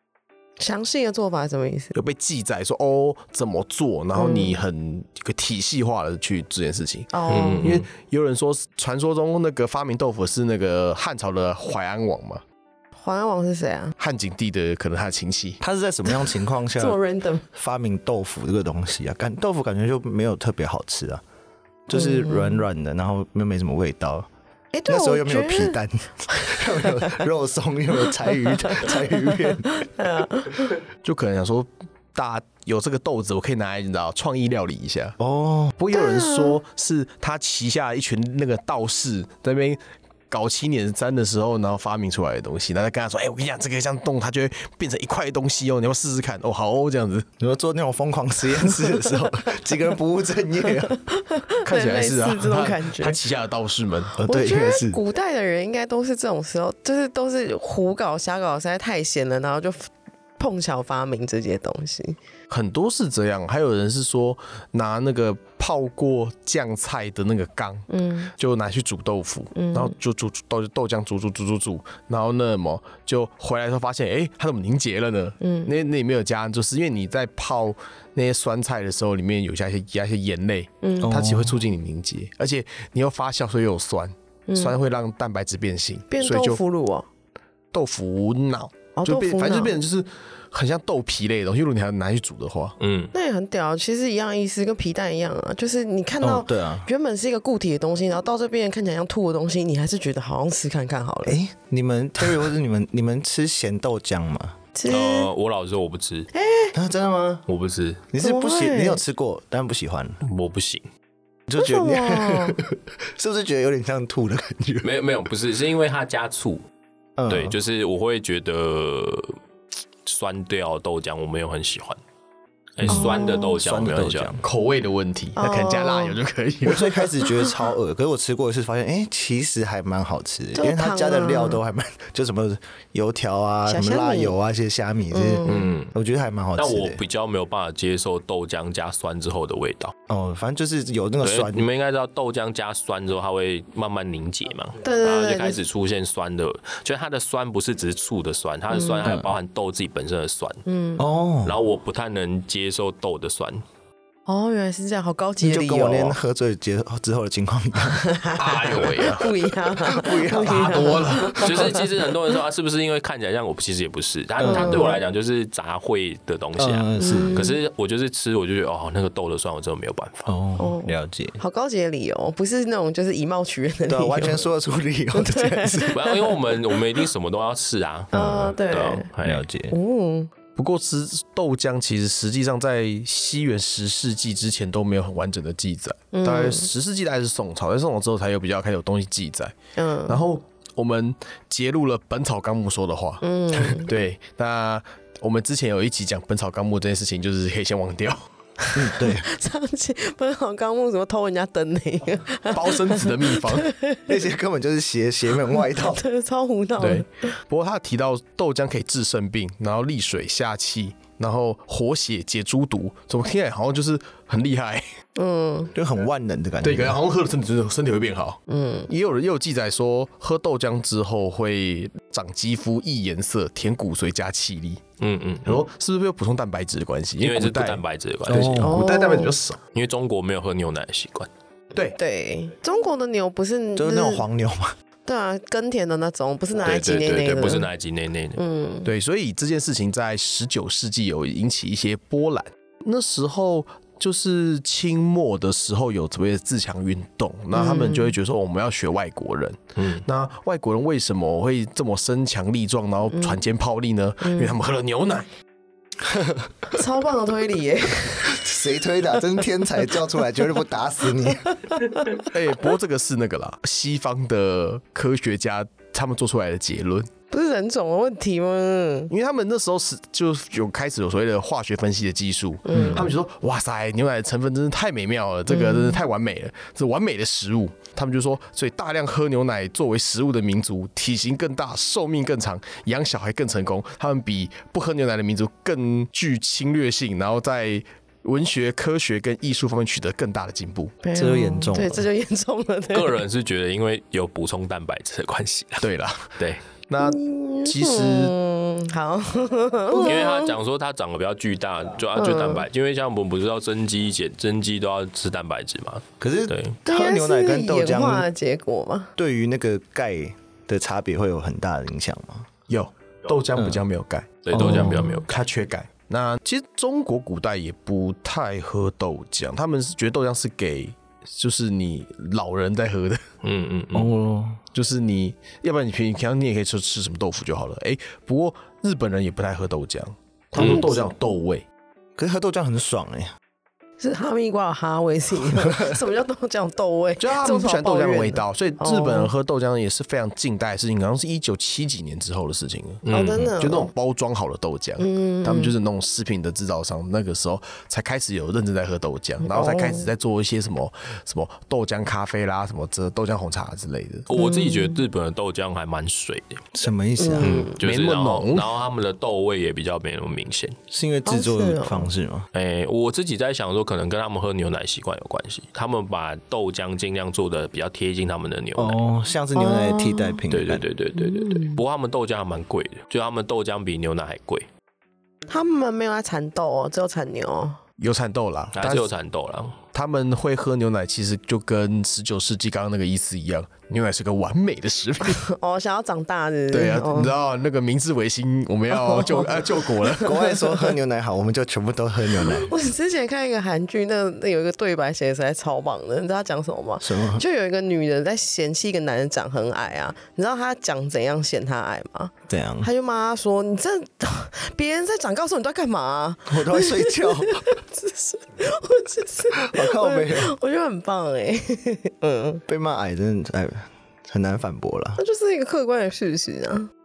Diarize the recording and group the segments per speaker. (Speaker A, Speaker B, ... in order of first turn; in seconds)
Speaker A: 0.6-1.9, 4.2-4.6, 7.1-7.8, 13.0-13.9, 16.8-17.4, 21.9-22.6, 24.7-27.2, 28.5-28.9, 29.6-30.8, 35.9-36.6, 50.9-53.2, 54.2-62.2, 67.9-68.3, 69.5-69.9, 75.4-75.7, 80.8-81.1, 84.5-84.8, 86.1-87.1, 89.0-89.8, 93.1-101.4, 104.8-105.3, 106.3-106.7, 108.2-109.0, 111.6-112.6, 122.9-123.6, 125.4-126.2, 130.6-131.6, 133.7-134.3, 135.1-135.7, 144.8-145.6, 148.7-149.1, 150.7-151.0, 154.3-156.2, 158.0-161.9, 164.4-165.0, 167.0-167.6, 170.6-174.4, 175.1-176.8, 178.1-179.1, 179.7-180.3, 186.1-186.7, 189.8-190.3, 193.2-193.9, 198.6-204.1, 205.8-207.4, 215.2-215.7, 218.5-218.9, 228.6-229.3, 232.0-234.2, 235.1-237.7, 238.4-238.9, 247.5-248.2, 253.1-253.4, 254.2-254.6, 256.7-258.5, 261.6-262.2, 267.3-269.1, 272.7-273.1, 275.5-276.0, 291.0-293.2, 297.0-300.6, 302.2-302.7, 306.9-309.1, 315.0-315.2, 330.6-331.0, 334.0-339.3, 343.1-343.9, 345.0-345.8, 349.4-350.1, 354.3-355.0, 357.2-357.7, 361.3-362.1, 369.6-370.4, 371.1-371.8, 375.5-377.8, 385.3-387.3, 388.9-390.9, 392.5-412.6, 415.2-416.9
Speaker B: 1.9-12.4, 14.0-15.6, 31.0-35.2, 35.8-47.3, 51.6-54.2, 62.5-86.6, 87.7-92.8, 124.4-127.1, 158.4-159.3, 160.5-161.5, 180.6-189.5, 190.1-198.2, 202.5-203.7, 206.8-214.8, 216.6-224.8, 225.4-229.6, 238.8-255.3, 262.2-267.1, 269.1-290.9, 295.8-296.3, 296.9-298.4, 312.7-323.2, 324.7-331.6, 337.2-343.0, 343.6-354.3, 357.8-358.7, 378.0-379.1, 379.9-385.4, 386.7-390.4
Speaker C: 7.3-7.9, 92.8-93.1, 104.9-106.3, 107.5-108.0, 110.2-110.8, 114.8-116.6, 117.3-119.4, 120.0-122.0, 122.8-124.3, 135.4-135.9, 136.6-139.9, 141.2-150.6, 151.4-153.6, 161.3-170.3, 175.9-179.5, 225.0-225.7, 227.2-228.6, 229.7-231.3, 236.6-238.4, 249.8-250.1, 292.9-295.9, 296.4-296.6, 299.9-306.8, 314.4-315.3, 323.4-324.1, 330.6-330.9, 343.1-343.5, 354.3-356.6, 357.4-360.8, 362.5-369.0, 370.5-374.7, 378.8-379.8
Speaker D: 15.6-17.0, 17.5-21.2, 21.9-24.3, 24.9-29.9, 35.2-35.8, 47.4-51.0, 54.1-55.0, 81.0-81.6, 96.2-96.9, 101.2-104.6, 106.7-107.5, 108.1-110.2, 111.5-114.9, 117.2-117.6, 122.8-124.4, 126.6-137.0, 140.1-141.7, 149.0-149.3, 151.0-151.6, 155.4-158.2, 159.7-161.6, 164.4-165.0, 166.6-167.5, 170.3-171.4, 173.9-176.0, 178.2-178.5, 179.2-179.7, 198.8-199.3, 204.1-206.0, 215.7-217.0, 228.3-228.8, 233.8-234.7, 256.0-256.7, 258.2-261.5, 272.7-273.1, 291.1-292.1, 306.2-308.3, 309.2-312.5, 313.6-313.8, 314.5-315.2, 323.9-324.6, 332.2-333.3, 335.7-335.9, 356.7-357.7, 360.9-362.5, 368.8-370.9, 390.2-392.7, 397.0-397.4, 402.5-402.9, 406.5-407.7, 409.6-410.5, 412.7-415.2